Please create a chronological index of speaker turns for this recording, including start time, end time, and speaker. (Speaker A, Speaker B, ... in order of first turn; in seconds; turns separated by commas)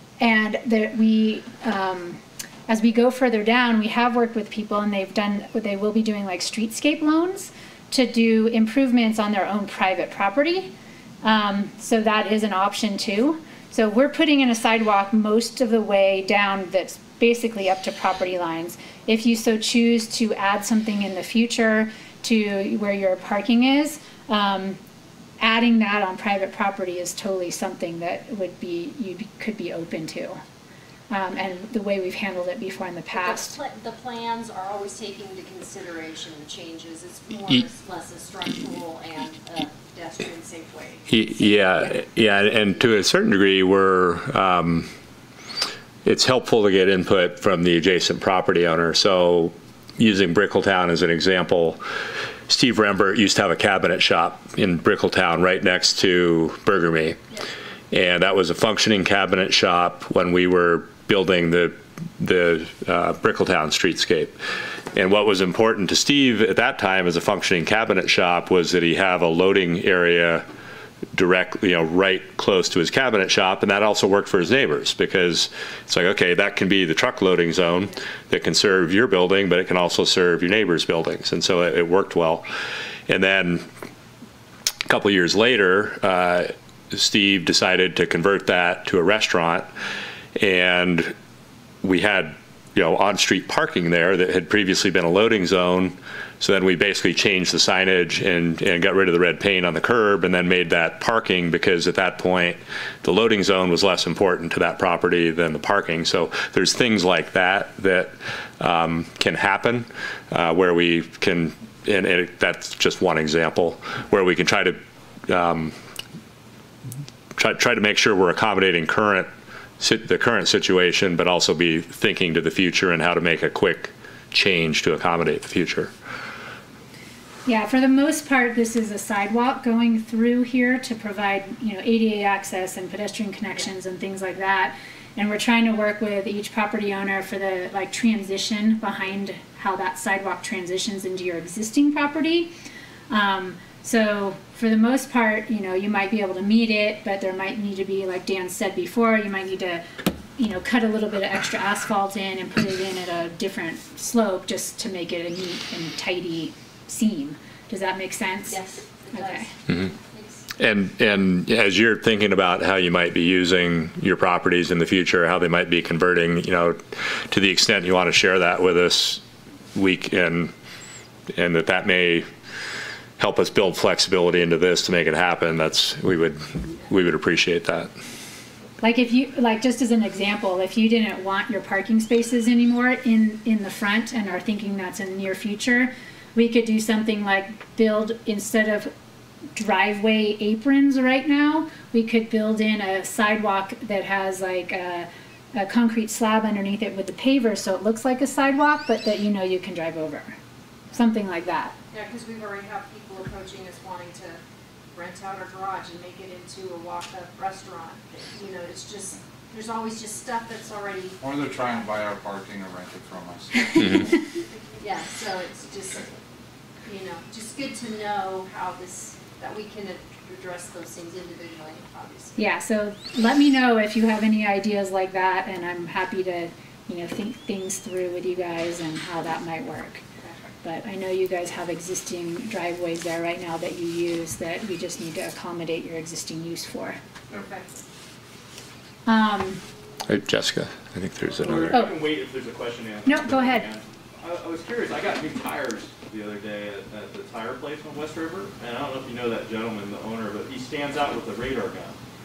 Speaker A: 0.2-10.7, Speaker A: 11.2-24.8, Speaker A: 25.4-30.4, Speaker A: 31.1-33.6, Speaker B: 33.1-42.0, Speaker C: 41.1-44.9, Speaker C: 46.0-51.8, Speaker C: 52.5-57.2, Speaker C: 57.9-64.4, Speaker C: 64.9-70.4, Speaker C: 71.1-82.5, Speaker C: 83.1-83.7, Speaker C: 84.9-89.7, Speaker C: 90.4-91.1, Speaker C: 91.8-115.7, Speaker C: 117.4-119.3, Speaker C: 119.8-125.9, Speaker A: 127.5-142.5, Speaker A: 143.1-149.8, Speaker A: 150.4-158.6, Speaker B: 158.5-160.5, Speaker A: 159.1-159.4, Speaker C: 160.6-169.2, Speaker C: 169.7-170.5, Speaker C: 171.3-172.3, Speaker C: 173.2-177.9, Speaker A: 178.8-188.9, Speaker A: 189.6-200.4, Speaker A: 200.9-201.7, Speaker B: 201.9-204.4, Speaker B: 204.9-211.5, Speaker D: 211.2-214.2, Speaker B: 214.8-216.1, Speaker B: 216.9-222.4, Speaker A: 222.4-230.0, Speaker A: 230.6-237.0, Speaker B: 237.3-237.8, Speaker A: 239.1-239.6, Speaker C: 240.1-241.7, Speaker E: 241.4-252.0, Speaker A: 243.1-243.7